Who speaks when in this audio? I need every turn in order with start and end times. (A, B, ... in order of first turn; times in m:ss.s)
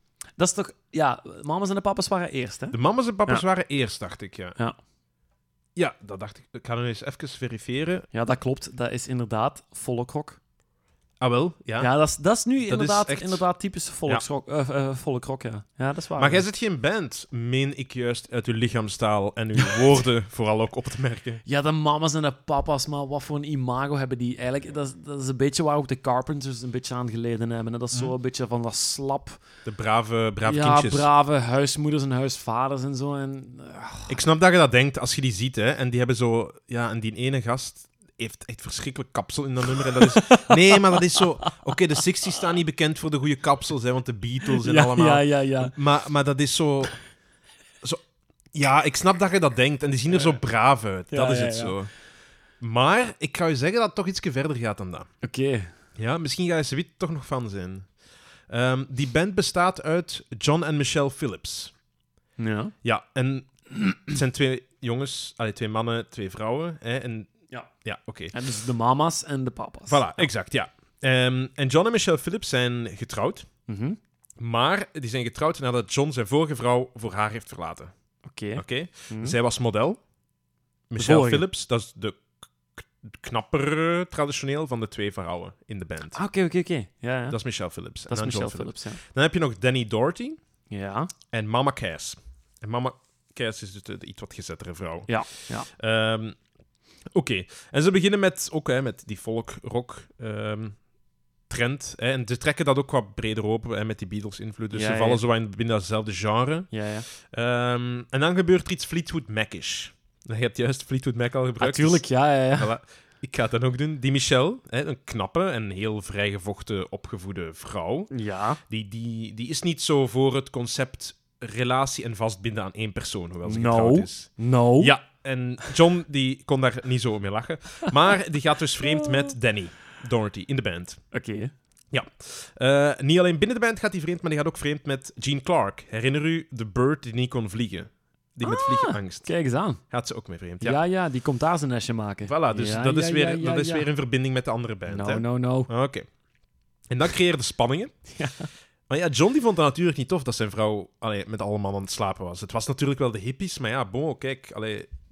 0:00.4-0:03.4 A
0:02.7-0:04.5 B
0:05.8-0:08.1 B
0:08.1-0:10.4 A
0:11.2-0:11.9 B
0:11.8-0:16.4 A
0:12.6-0:13.4 B
0:16.2-0:21.4 B
0:21.4-0:29.4 A
0:29.6-0:31.1 B
0:30.4-0:34.2 A
0:34.1-0:47.0 B
0:40.0-0:41.4 A
0:44.6-0:45.7 A
0:48.5-0:51.9 B
0:50.1-0:50.4 A
0:51.1-0:51.8 A
0:52.6-0:55.1 B
0:55.2-0:55.7 A
0:56.0-0:57.9 B
0:58.5-1:01.7 B
1:02.4-1:02.7 A
1:02.8-1:08.4 B
1:08.3-1:10.3 A
1:09.9-1:13.5 B
1:13.7-1:14.0 A
1:14.4-1:17.9 B
1:18.3-1:19.4 A
1:18.5-1:20.0 B
1:20.9-1:22.2 B
1:21.0-1:21.4 A
1:22.8-1:26.2 B
1:26.1-1:27.4 A
1:27.3-1:30.4 B
1:28.1-1:29.0 A
1:30.7-1:31.1 A
1:31.3-1:36.4 B
1:35.1-1:35.7 A
1:37.1-1:40.8 B
1:41.5-1:58.1 B
1:44.7-1:45.2 A
1:46.7-1:47.1 A
1:51.6-1:52.7 A
1:58.1-1:58.6 A
1:58.7-2:11.0 B
2:03.4-2:04.9 A
2:11.1-2:11.5 A
2:11.9-2:19.3 B
2:18.4-2:19.8 A
2:19.9-2:20.8 B
2:20.6-2:23.9 A
2:22.2-2:26.0 B
2:24.8-2:25.7 A
2:26.9-2:28.1 B
2:28.1-2:28.5 A
2:28.9-2:34.9 B